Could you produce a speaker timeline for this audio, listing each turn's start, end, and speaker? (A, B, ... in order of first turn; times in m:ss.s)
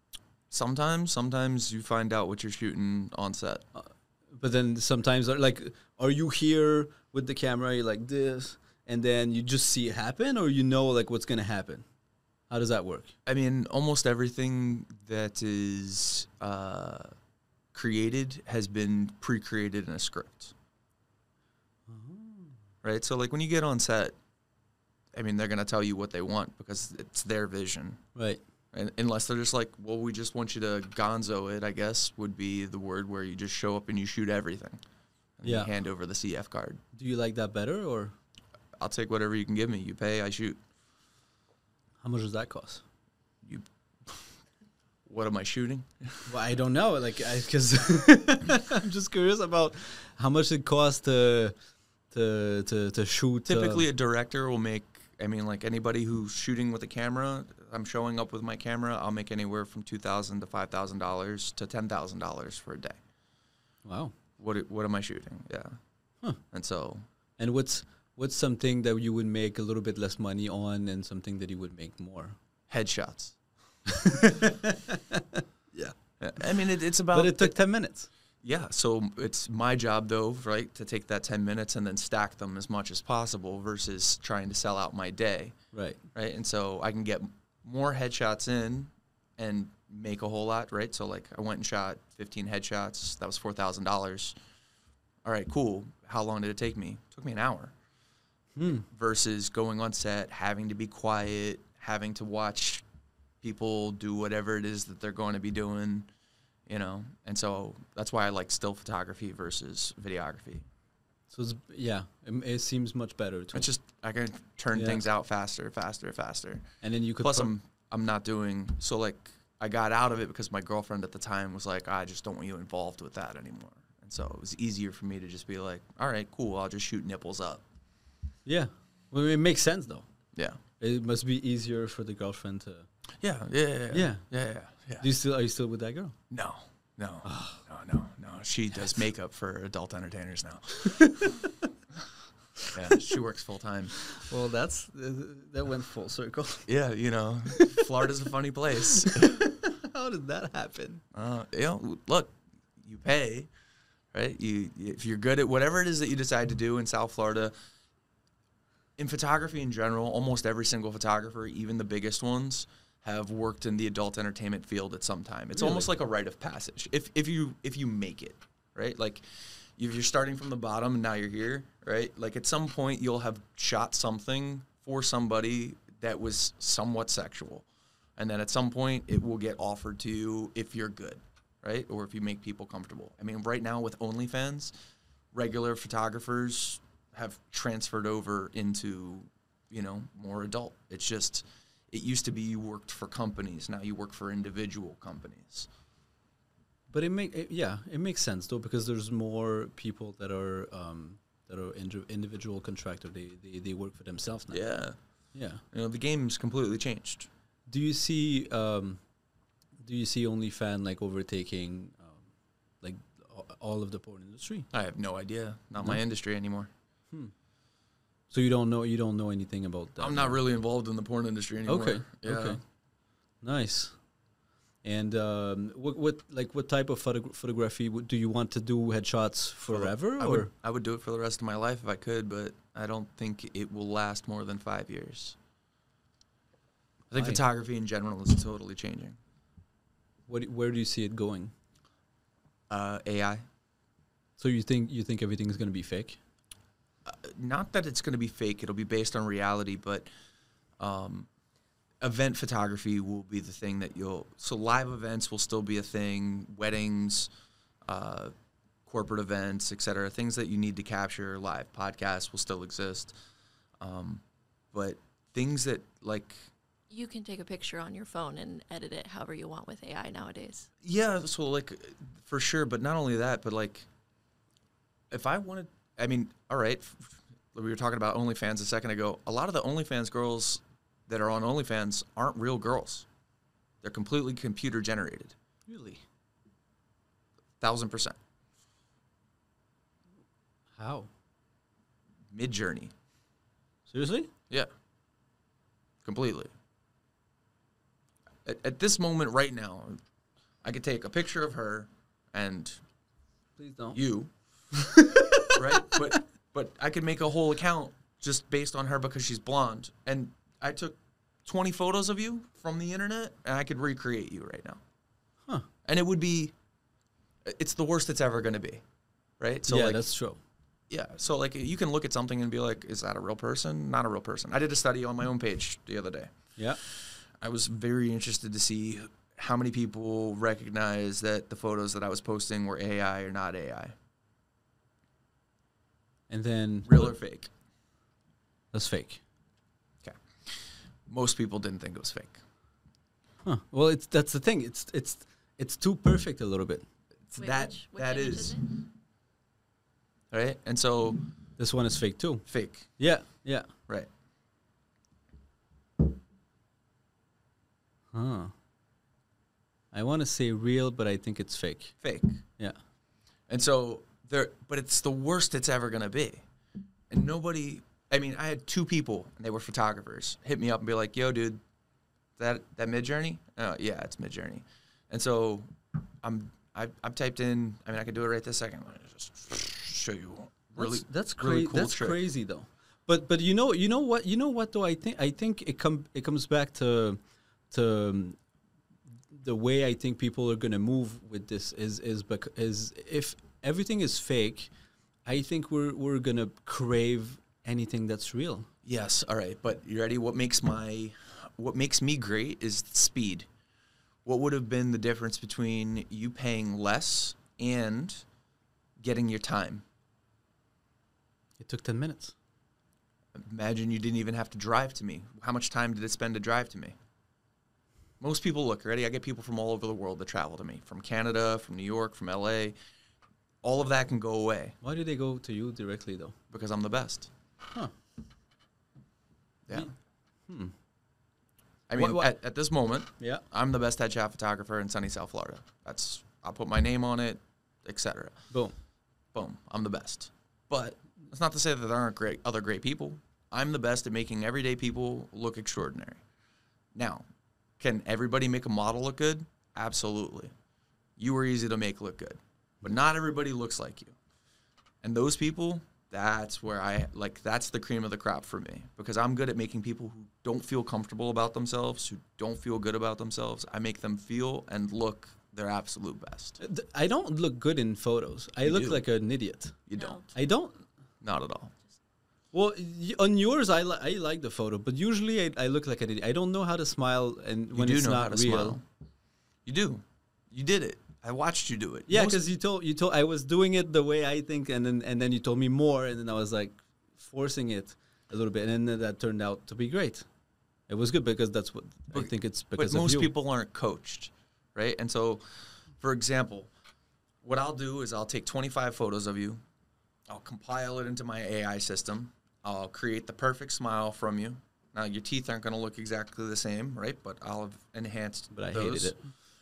0:00.5-0:03.6 A
0:03.7-0:11.8 B
0:12.5-0:13.1 B
0:13.2-0:17.1 A
0:17.7-0:20.5 A
0:21.9-0:22.6 B
0:22.8-0:24.2 A
0:25.1-0:28.0 A
0:28.2-0:28.4 B
0:28.7-0:34.8 A
0:35.4-0:36.8 A
0:35.4-0:35.7 B
0:36.9-0:38.1 B
0:38.8-0:40.6 A
0:42.0-0:42.8 B
0:43.4-0:44.2 A
0:45.0-0:46.3 A
0:46.3-0:51.5 B
0:52.1-0:53.9 B
0:53.4-1:03.0 A
1:03.8-1:04.2 B
1:04.4-1:05.8 A
1:06.5-1:07.0 A
1:07.4-1:12.4 B
1:12.7-1:13.4 A
1:13.8-1:15.9 B
1:16.2-1:17.5 A
1:17.1-1:18.1 B
1:18.4-1:25.5 A
1:25.7-1:26.0 B
1:26.1-1:34.3 A
1:35.2-1:37.7 A
1:38.6-1:38.8 B
1:38.7-1:42.8 A
1:43.4-1:46.1 A
1:46.7-1:50.6 A
1:51.3-1:53.7 B
1:53.5-1:56.7 A
1:54.7-1:55.0 B
1:56.8-1:57.5 B
1:57.2-2:07.6 A
2:08.4-2:10.1 B
2:10.3-2:10.6 A
2:10.8-2:12.9 B
2:13.2-2:15.1 A
2:13.9-2:14.2 B
2:15.0-2:16.2 B
2:16.3-2:21.3 A
2:17.2-2:17.6 B
2:20.8-2:21.4 B
2:22.7-2:23.9 A
2:24.1-2:26.7 B
2:26.7-2:29.5 A
2:27.5-2:27.9 B
2:28.9-2:31.0 B
2:31.1-2:33.5 A
2:34.1-2:37.5 A
2:39.0-2:49.2 A
2:45.5-2:45.9 B
2:49.8-2:57.6 A
2:58.2-3:04.7 A
3:05.3-3:15.7 A
3:16.9-3:24.6 B
3:24.5-3:25.0 A
3:25.3-3:25.6 B
3:25.7-3:27.3 A
3:27.7-3:29.0 B
3:29.8-3:32.3 B
3:32.8-3:34.7 B
3:34.7-3:36.7 A
3:38.3-3:40.4 B
3:40.0-3:42.6 A
3:41.6-3:42.6 B
3:43.4-3:44.0 B
3:44.8-3:50.5 B
3:49.7-3:55.4 A
3:57.1-3:59.2 A
3:57.1-3:57.4 B
4:00.3-4:01.5 B
4:02.7-4:03.4 A
4:04.4-4:06.2 B
4:07.0-4:10.1 A
4:10.8-4:11.3 A
4:12.0-4:17.3 A
4:17.8-4:18.3 A
4:18.8-4:23.1 A
4:23.8-4:26.4 A
4:26.9-4:30.7 C
4:30.8-4:33.9 A
4:35.1-4:43.1 A
4:43.8-4:45.3 A
4:45.7-4:46.0 B
4:47.6-4:48.2 A
4:50.8-4:51.1 B
4:52.3-4:52.9 A
4:53.9-4:54.3 B
4:56.0-4:56.5 A
4:58.4-5:00.0 A
5:00.6-5:02.8 A
5:03.6-5:04.0 B
5:03.9-5:04.3 A
5:04.7-5:06.2 B
5:05.4-5:14.8 A
5:15.8-5:16.5 A
5:17.4-5:18.8 A
5:19.4-5:20.0 A
5:19.6-5:20.4 B
5:20.9-5:26.3 A
5:26.8-5:33.9 A
5:36.3-5:37.1 B
5:36.8-5:37.5 A
5:38.7-5:39.2 B
5:40.0-5:42.4 A
5:43.4-5:46.8 B
5:47.3-5:48.7 A
5:47.4-5:48.7 C
5:50.3-5:51.2 A
5:51.6-5:53.7 B
5:52.5-5:52.9 A
5:58.1-5:58.5 B
5:59.9-6:02.0 B
6:02.0-6:02.4 A
6:03.5-6:06.4 A
6:07.1-6:11.6 A
6:12.4-6:15.7 A
6:16.2-6:22.2 A
6:20.8-6:28.4 B
6:29.3-6:34.7 B
6:35.2-6:38.7 B
6:38.8-6:43.5 A
6:44.2-6:48.2 A
6:49.0-6:49.8 A
6:51.6-6:52.3 B
6:53.3-6:57.0 A
6:58.2-7:02.7 A
7:03.6-7:04.8 A
7:04.8-7:06.4 B
7:06.5-7:07.3 A
7:09.6-7:09.9 A
7:10.5-7:10.7 B
7:11.9-7:18.4 A
7:11.9-7:12.3 B
7:13.2-7:13.4 B
7:19.3-7:26.2 A
7:26.9-7:27.2 A
7:27.8-7:30.5 A
7:31.2-7:34.2 A
7:35.0-7:46.6 A
7:46.6-7:49.8 B
7:48.6-7:49.0 A
7:49.9-7:50.2 A
7:49.9-7:50.2 C
7:50.3-7:50.8 B
7:51.2-7:51.7 A
7:52.5-7:58.8 B
7:57.7-7:58.8 A
7:59.6-8:02.4 A
8:02.1-8:10.2 B
8:10.9-8:13.3 B
8:12.1-8:15.4 A
8:16.0-8:16.7 A
8:17.4-8:19.6 A
8:20.3-8:29.2 A
8:28.5-8:29.2 B